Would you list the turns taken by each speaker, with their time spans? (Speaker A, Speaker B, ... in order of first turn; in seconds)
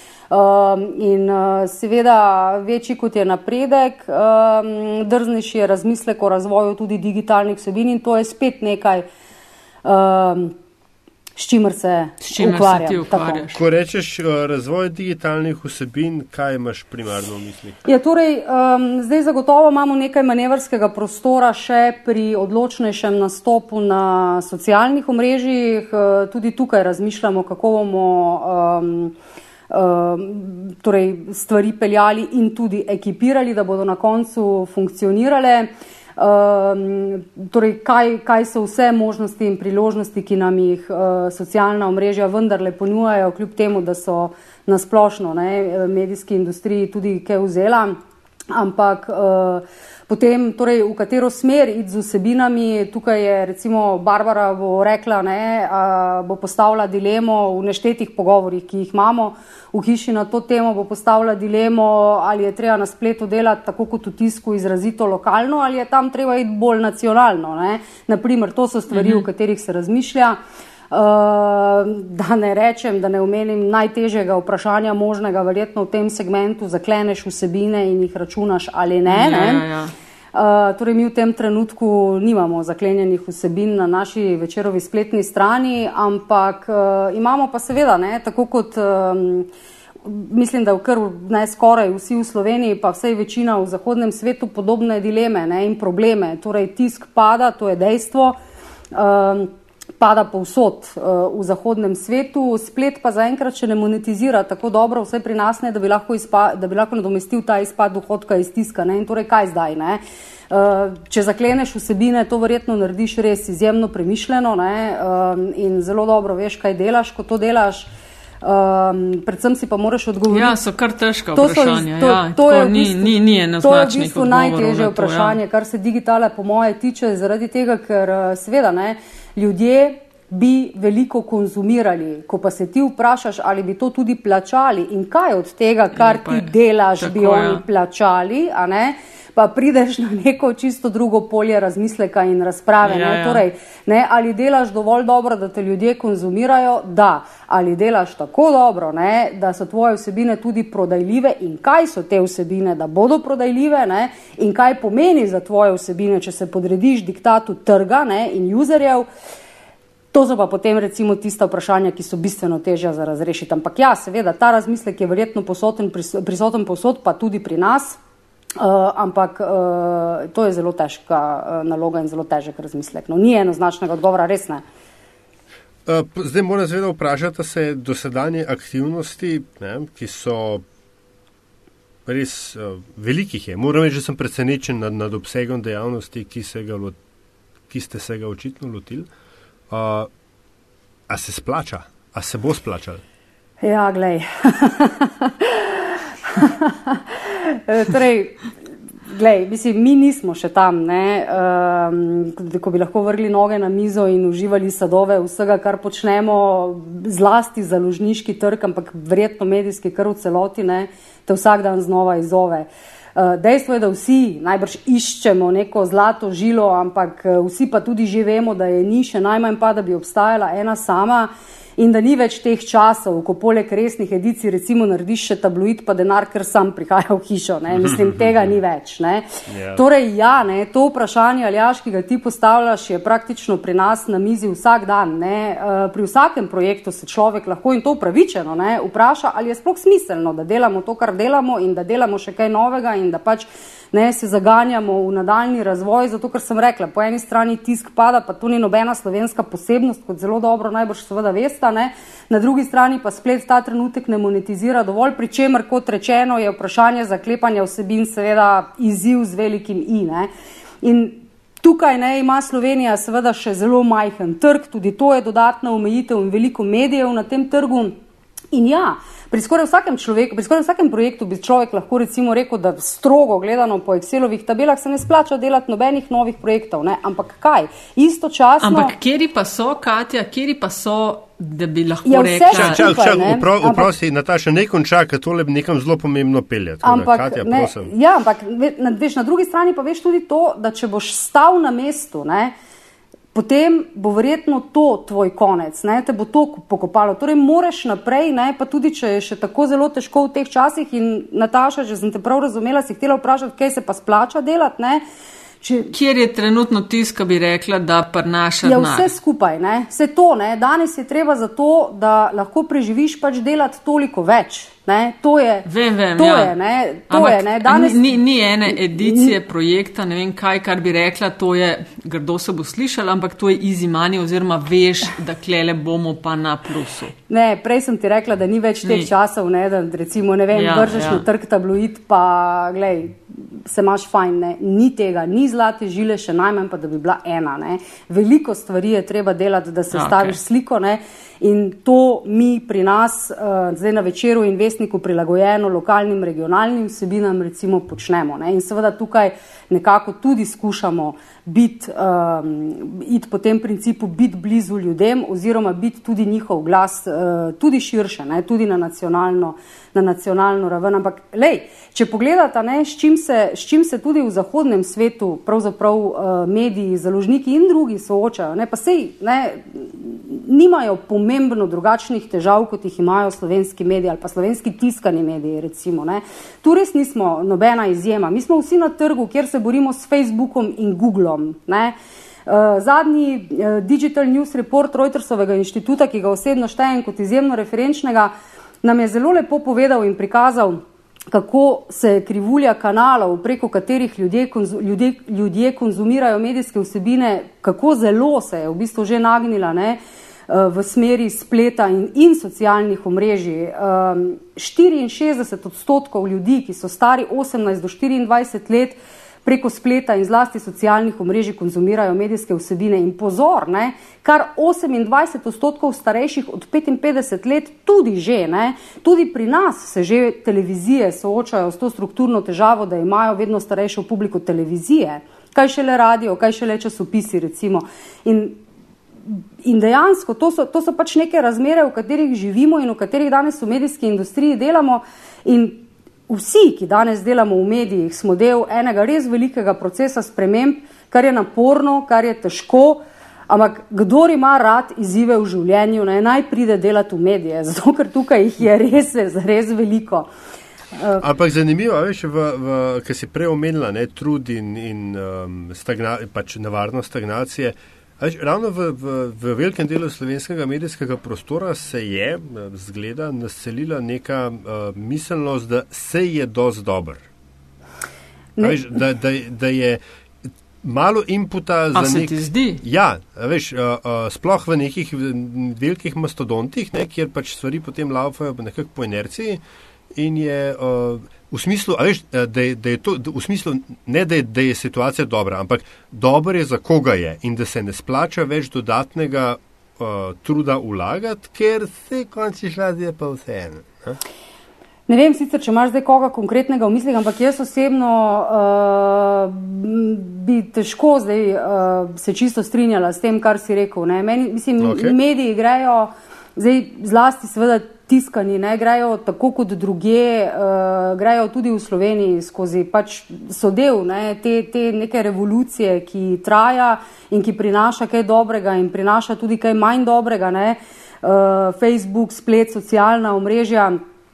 Speaker A: 0.3-9.1, 9.8-10.6, 11.4-13.4, 17.9-29.1, 29.7-48.0, 48.5-70.4, 70.9-79.7, 80.3-89.5, 90.0-98.4, 98.9-117.9, 118.4-120.6, 121.3-159.1, 160.1-168.0, 168.6-174.6, 193.6-198.5, 199.1-260.3, 260.8-268.0, 268.5-278.9, 282.1-283.9, 286.8-292.5, 293.3-305.0, 305.6-305.9, 308.6-318.1, 318.7-319.3, 327.3-381.9, 382.5-388.3, 388.8-428.6, 429.3-450.3, 451.0-451.2, 468.6-468.9, 495.1-524.0
Speaker B: 12.2-13.6, 68.9-69.2, 79.1-79.9, 120.3-125.4, 135.9-137.6, 142.8-143.4, 278.6-282.9, 305.9-309.1, 315.7-316.5, 317.1-327.1, 328.8-329.1, 330.5-331.2, 339.9-340.4, 471.9-472.8
Speaker C: 13.5-17.8, 175.9-180.6, 182.1-187.0, 187.7-189.1, 189.7-190.1, 191.1-193.0, 229.5-229.8, 282.5-287.9, 451.2-467.2, 468.6-470.0, 470.8-479.6, 480.1-494.2, 504.8-505.2